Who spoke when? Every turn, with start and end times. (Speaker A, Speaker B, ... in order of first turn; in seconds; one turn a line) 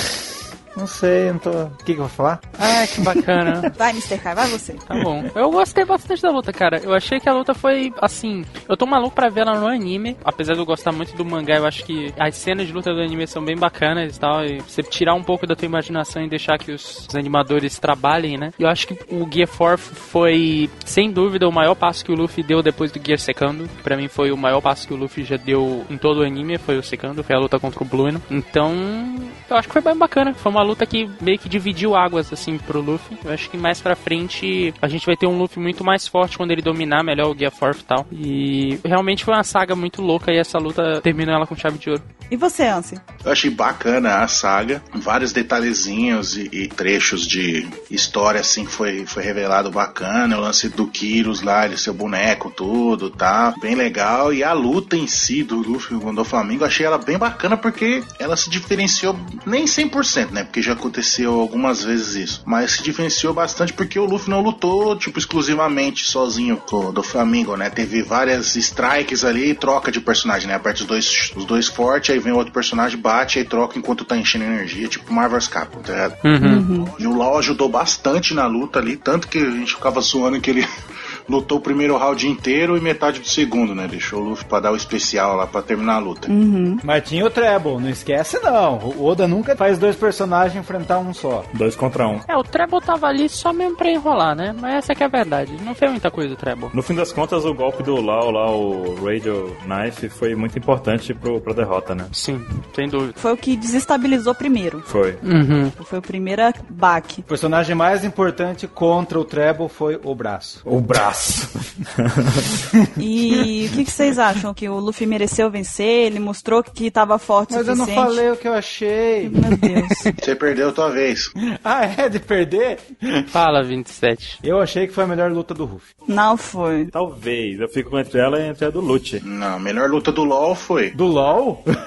Speaker A: 0.7-3.7
Speaker B: 2.6-3.7
Speaker C: 3.7-4.8
Speaker B: 4.9-42.0
Speaker C: 42.3-43.0
Speaker D: 43.2-76.2
Speaker B: 76.2-76.6
Speaker C: 76.4-76.9
Speaker D: 76.8-80.7
Speaker D: 81.3-86.3
Speaker C: 86.3-86.8
Speaker A: 86.8-91.5
Speaker E: 91.5-92.2
Speaker B: 92.3-96.7
Speaker E: 96.7-102.1
Speaker B: 102.1-103.2
Speaker C: 103.2-104.8
Speaker E: 104.8-105.2
Speaker B: 105.2-105.7
Speaker C: 105.8-107.2
Speaker A: 107.3-110.6
Speaker E: 110.6-112.5
Speaker C: 113.0-118.2
Speaker A: 117.5-119.8
Speaker C: 119.2-120.1
Speaker D: 120.2-121.3
Speaker A: 121.4-123.3
Speaker B: 123.3-124.4
Speaker A: 124.4-125.9
Speaker C: 126.1-126.9
Speaker E: 126.9-129.2
Speaker D: 129.2-130.9
Speaker A: 130.9-131.7